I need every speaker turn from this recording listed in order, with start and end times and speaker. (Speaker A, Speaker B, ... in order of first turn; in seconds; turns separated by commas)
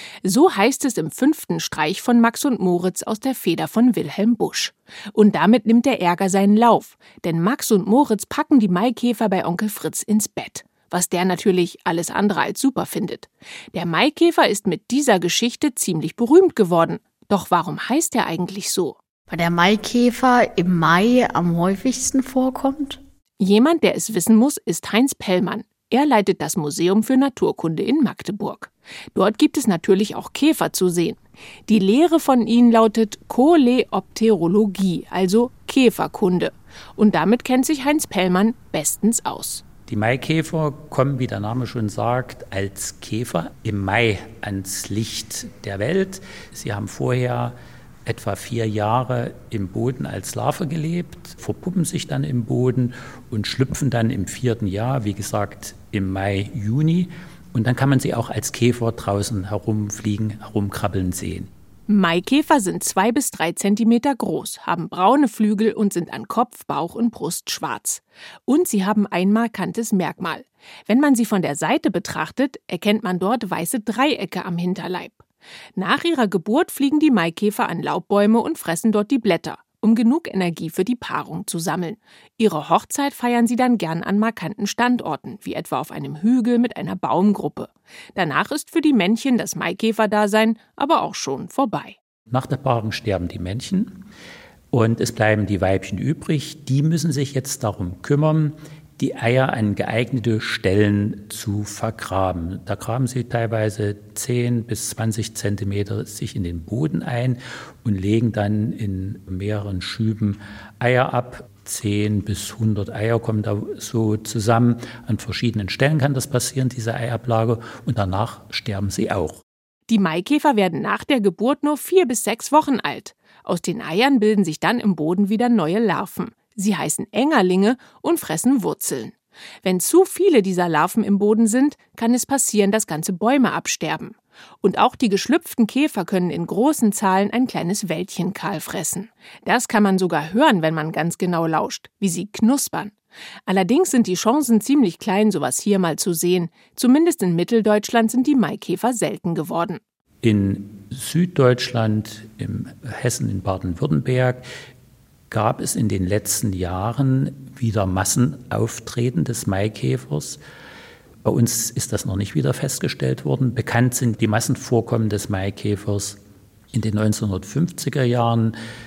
Speaker A: 0.2-19.0, Speaker B: 19.3-23.0, Speaker A: 23.4-39.6, Speaker C: 39.9-61.5, Speaker A: 61.9-75.2, Speaker A: 75.8-92.0, Speaker C: 92.3-94.0, Speaker C: 94.7-119.4, Speaker A: 119.9-142.9, Speaker A: 143.5-149.8, Speaker C: 150.2-154.4, Speaker C: 155.3-160.4, Speaker C: 161.2-166.2, Speaker C: 166.7-168.6